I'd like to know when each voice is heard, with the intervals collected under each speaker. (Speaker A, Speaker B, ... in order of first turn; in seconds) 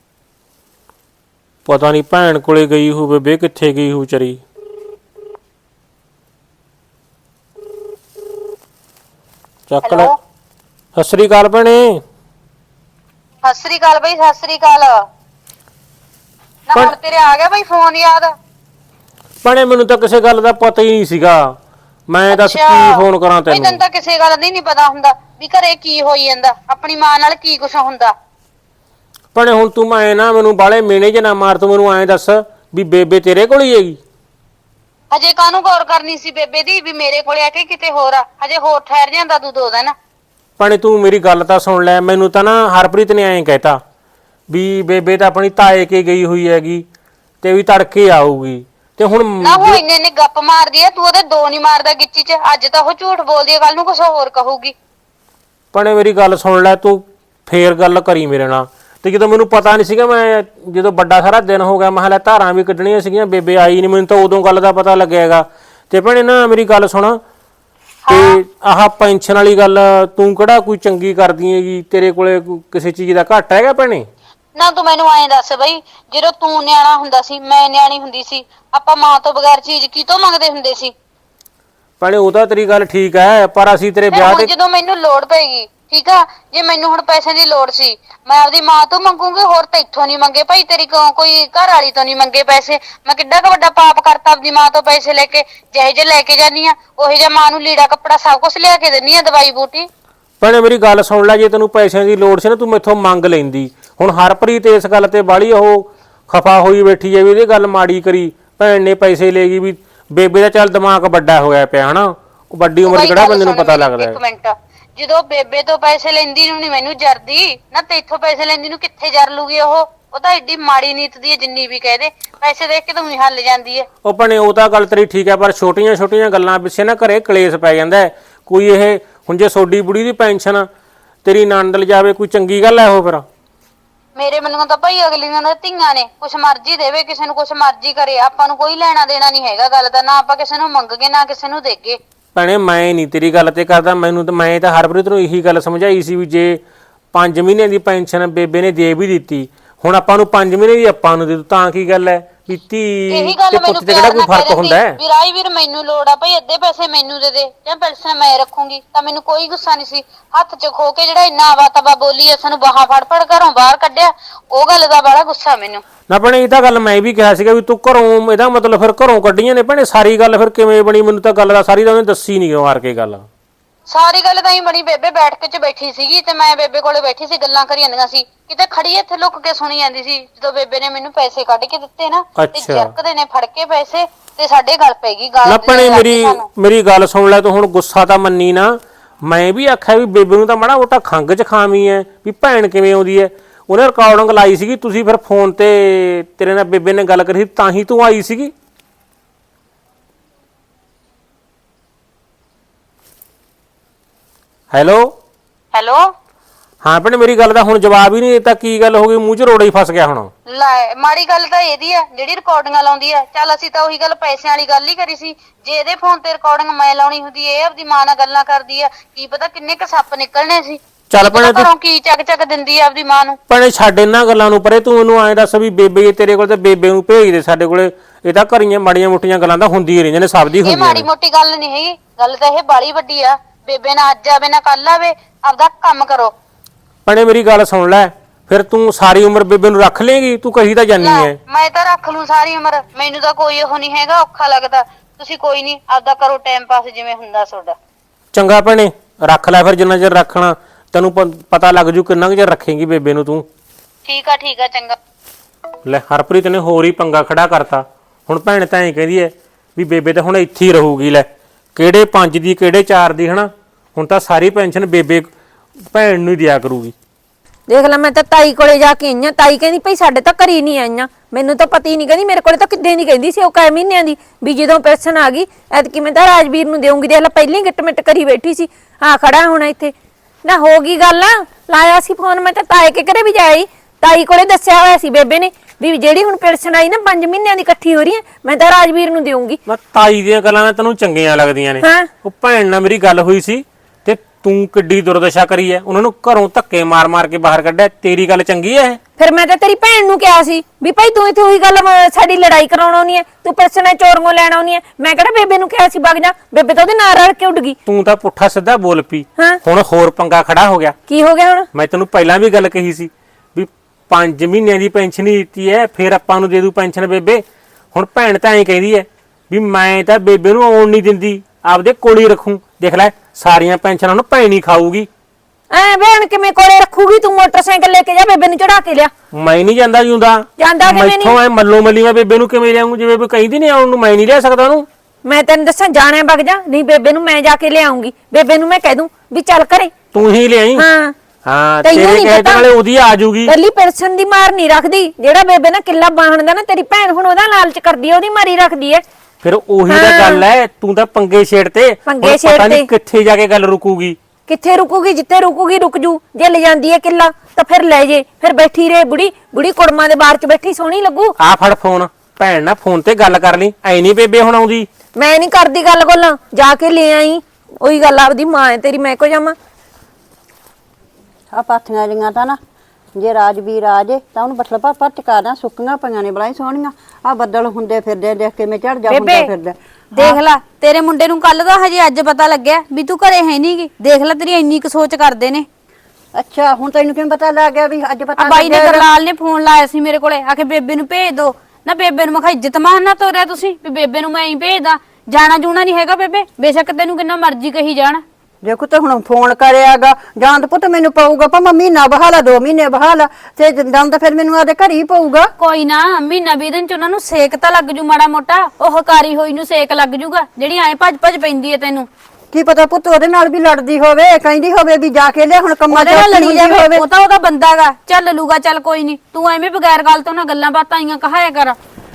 Speaker A: 1.7-4.4, 9.7-10.1, 10.9-12.0, 19.4-21.5, 22.1-23.8, 29.4-34.0, 40.6-43.8, 44.5-46.9, 47.4-49.8, 55.7-67.2, 68.1-74.1, 82.0-84.5, 100.4-114.2, 124.0-130.7, 131.2-133.2, 142.3-146.6, 147.1-155.0, 166.1-173.3, 182.4-182.9, 185.4-198.5, 204.7-205.1, 206.8-210.3, 221.1-221.7, 223.5-231.1, 237.1-241.4, 248.3-253.5, 255.8-265.3, 265.9-266.9, 289.7-299.0, 307.9-310.9, 311.7-325.1, 329.3-334.9, 340.1-340.9, 341.4-343.5, 349.4-354.2, 361.4-364.9
Speaker B: 9.8-10.2, 13.4-15.0, 16.7-18.3, 22.3-28.1, 35.1-39.9, 49.4-54.7, 68.1-68.4, 74.6-80.9, 84.1-99.9, 112.8-123.9, 134.2-142.0, 153.1-165.8, 173.9-186.4, 205.7-206.0, 210.5-223.4, 230.6-236.3, 241.0-247.8, 254.1-255.0
Speaker C: 267.7-289.6, 291.8-292.1, 299.2-307.8, 311.1-311.7, 325.7-329.1, 330.6-331.4, 335.2-339.9, 340.8-341.1, 341.8-342.7, 343.5-349.0, 349.9-350.4, 352.1-352.9, 354.5-361.4, 365.1-369.6
Speaker D: 371.5-372.6, 373.1-380.4, 386.4-389.1, 398.6-405.5, 412.5-417.0
Speaker E: 379.1-379.5, 380.1-385.7, 388.4-398.2, 405.6-412.1, 415.9-421.8